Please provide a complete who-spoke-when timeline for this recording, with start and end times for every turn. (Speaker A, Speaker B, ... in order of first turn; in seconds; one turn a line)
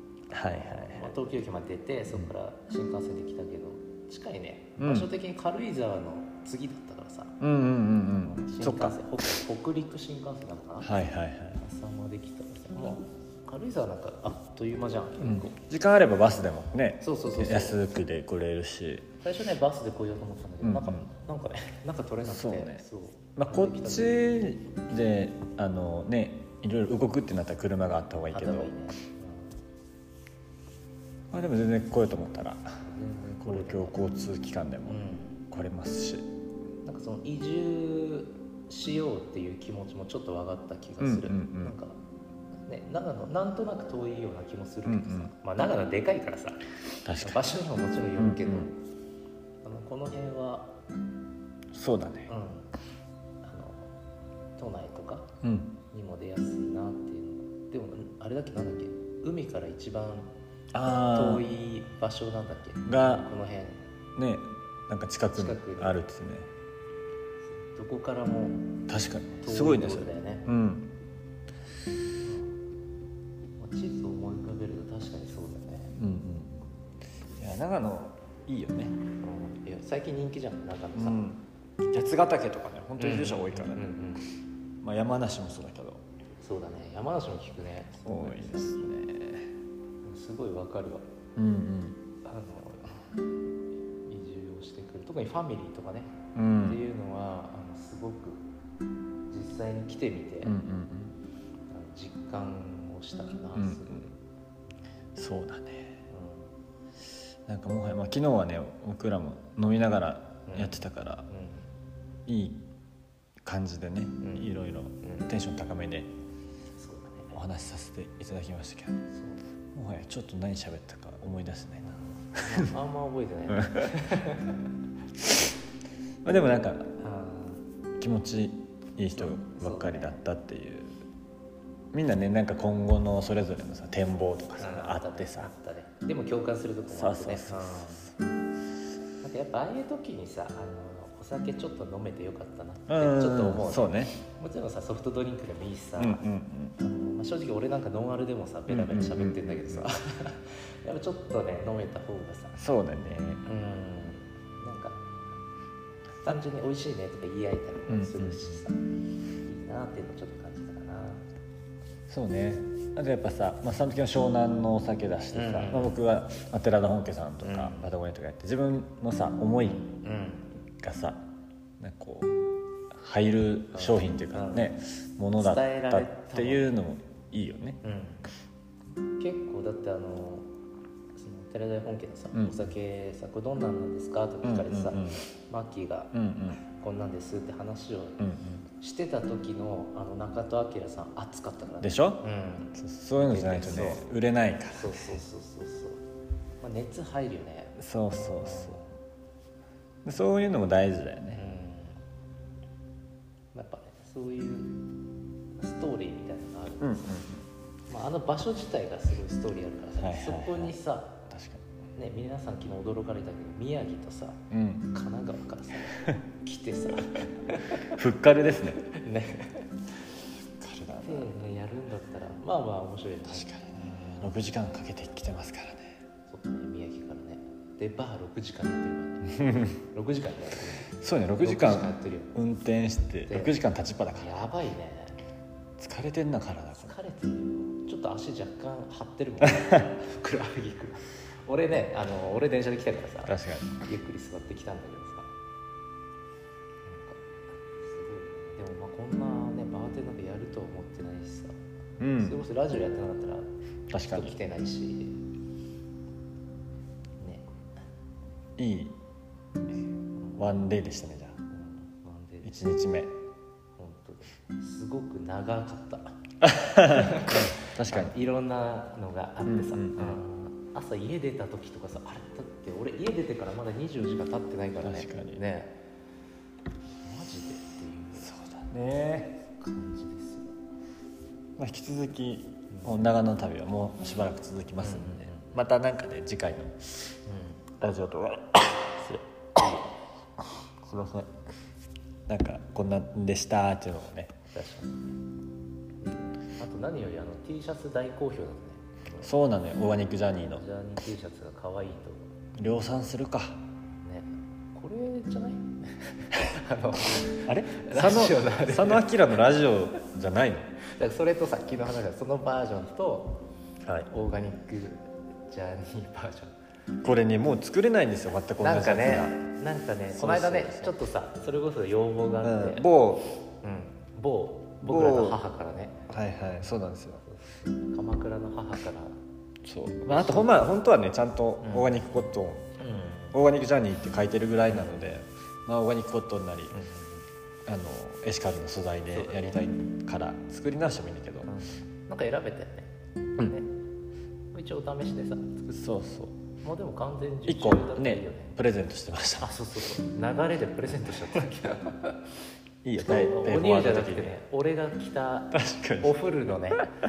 Speaker A: 0.3-1.1
Speaker B: 0.3-7.4
Speaker A: 4.8-5.1
Speaker A: 7.4-9.0
Speaker B: 8.2-10.9
Speaker A: 10.8-11.6
Speaker B: 11.6-15.6
Speaker A: 15.2-19.1
Speaker B: 17.0-17.8
Speaker B: 19.2-24.2
Speaker A: 20.6-21.0
Speaker A: 22.3-22.8
Speaker A: 23.4-28.7
Speaker B: 28.3-29.5
Speaker A: 31.3-32.8
Speaker B: 32.8-34.0
Speaker A: 33.4-36.2
Speaker B: 34.9-35.4
Speaker B: 36.8-42.0
Speaker A: 41.0-41.7
Speaker B: 42.7-48.8
Speaker A: 44.9-45.3
Speaker A: 47.0-47.5
Speaker A: 48.2-48.7
Speaker B: 49.6-50.7
Speaker A: 51.7-52.3
Speaker B: 52.3-52.7
Speaker B: 53.4-53.9
Speaker B: 54.6-55.3
Speaker A: 55.4-55.7
Speaker B: 55.9-60.3
Speaker A: 60.7-61.5
Speaker B: 60.9-63.8
Speaker A: 62.9-63.3
Speaker A: 64.2-66.5
Speaker B: 65.3-66.0
Speaker B: 67.5-68.7
Speaker A: 68.9-70.9
Speaker B: 69.4-70.5
Speaker B: 72.2-72.5
Speaker B: 73.6-76.0
Speaker A: 76.0-76.5
Speaker A: 77.4-79.0
Speaker B: 79.2-81.2
Speaker A: 80.9-83.8
Speaker B: 83.0-84.3
Speaker A: 84.8-86.0
Speaker B: 86.4-88.9
Speaker A: 88.0-89.5
Speaker B: 90.0-91.0
Speaker A: 91.3-92.0
Speaker B: 92.2-93.1
Speaker B: 94.0-98.4
Speaker A: 96.3-96.8
Speaker B: 99.3-100.6
Speaker A: 100.4-101.2
Speaker B: 101.7-104.1
Speaker A: 103.5-104.0
Speaker A: 105.2-106.0
Speaker B: 106.1-106.5
Speaker A: 107.5-111.3
Speaker B: 110.5-111.7
Speaker A: 112.2-112.6
Speaker A: 113.4-116.1
Speaker B: 114.2-114.5
Speaker B: 115.0-115.3
Speaker B: 116.8-117.4
Speaker A: 117.3-119.1
Speaker B: 119.1-119.4
Speaker A: 119.7-122.7
Speaker B: 121.8-124.6
Speaker A: 123.6-123.9
Speaker A: 126.2-126.9
Speaker B: 127.0-127.6
Speaker A: 128.0-131.0
Speaker B: 129.2-130.2
Speaker A: 131.9-135.5
Speaker B: 134.6-138.1
Speaker A: 136.9-138.1
Speaker B: 139.2-146.2
Speaker A: 142.9-144.2
Speaker A: 146.0-146.8
Speaker B: 146.8-152.6
Speaker A: 148.7-149.8
Speaker A: 152.6-153.4
Speaker B: 153.4-155.0
Speaker B: 156.2-158.8
Speaker A: 157.9-158.4
Speaker B: 159.4-161.2
Speaker A: 162.1-169.8
Speaker B: 165.3-166.0
Speaker B: 167.4-167.9
Speaker B: 169.6-170.5
Speaker A: 170.8-171.2
Speaker A: 171.8-172.3
Speaker A: 172.9-177.8
Speaker B: 173.7-174.7
Speaker B: 175.4-176.7
Speaker B: 177.8-178.2
Speaker B: 179.2-180.5
Speaker B: 181.2-188.2
Speaker A: 182.3-182.7
Speaker A: 184.4-185.2
Speaker A: 186.1-186.6
Speaker A: 188.2-188.6
Speaker B: 188.8-194.1
Speaker A: 191.8-192.2
Speaker A: 192.7-195.0
Speaker B: 194.7-196.0
Speaker B: 196.6-199.0
Speaker A: 197.8-198.8
Speaker A: 200.0-201.4
Speaker B: 201.3-202.0
Speaker B: 203.5-204.8
Speaker B: 205.6-207.2
Speaker A: 206.8-207.5
Speaker B: 207.9-211.2
Speaker A: 210.0-210.8
Speaker A: 211.3-211.6
Speaker B: 211.9-217.9
Speaker A: 214.5-214.9
Speaker A: 217.8-218.8
Speaker B: 218.8-219.7
Speaker A: 220.6-221.3
Speaker B: 221.0-224.3
Speaker A: 223.3-226.0
Speaker B: 226.3-232.3
Speaker A: 229.3-229.8
Speaker A: 230.9-234.4
Speaker B: 233.3-233.5
Speaker B: 234.1-235.2
Speaker A: 235.8-236.9
Speaker B: 236.8-245.3
Speaker A: 239.4-239.8
Speaker A: 243.2-243.8
Speaker B: 246.8-251.6
Speaker A: 252.0-252.4
Speaker B: 252.1-255.1
Speaker A: 253.9-254.3
Speaker B: 257.2-257.5
Speaker A: 258.6-258.9
Speaker B: 260.2-260.4
Speaker A: 260.4-261.4
Speaker B: 261.5-262.8
Speaker A: 262.4-263.1
Speaker B: 263.8-266.2
Speaker A: 266.4-268.1
Speaker B: 266.8-275.8
Speaker A: 269.4-270.2
Speaker A: 274.8-275.4
Speaker B: 277.0-278.3
Speaker A: 278.2-279.4
Speaker B: 279.6-280.5
Speaker A: 281.6-287.0
Speaker B: 282.7-283.0
Speaker B: 284.8-285.6
Speaker B: 287.2-287.6
Speaker A: 287.8-289.7
Speaker B: 289.6-289.9
Speaker A: 290.6-291.3
Speaker A: 292.3-294.4
Speaker B: 294.5-295.1
Speaker B: 296.0-299.3
Speaker A: 299.2-300.6
Speaker B: 300.4-302.4
Speaker A: 302.5-303.6
Speaker B: 303.9-309.1
Speaker A: 307.4-310.7
Speaker B: 310.8-313.4
Speaker B: 314.1-316.5
Speaker A: 317.0-319.3
Speaker B: 318.6-322.9
Speaker A: 320.1-320.9
Speaker A: 322.4-323.4
Speaker B: 323.6-329.2
Speaker A: 324.8-325.4
Speaker A: 326.1-327.2
Speaker A: 329.6-332.7
Speaker B: 330.1-330.6
Speaker B: 331.6-331.9
Speaker B: 332.8-333.4
Speaker A: 333.3-336.8
Speaker B: 334.7-335.1
Speaker B: 336.7-337.2
Speaker A: 337.7-341.5
Speaker B: 339.1-339.6
Speaker B: 341.4-343.7
Speaker B: 344.5-345.7
Speaker A: 345.7-346.4
Speaker B: 346.6-348.6
Speaker A: 347.4-349.5
Speaker B: 349.4-352.3
Speaker A: 352.8-354.4
Speaker B: 353.0-356.9
Speaker A: 355.5-356.2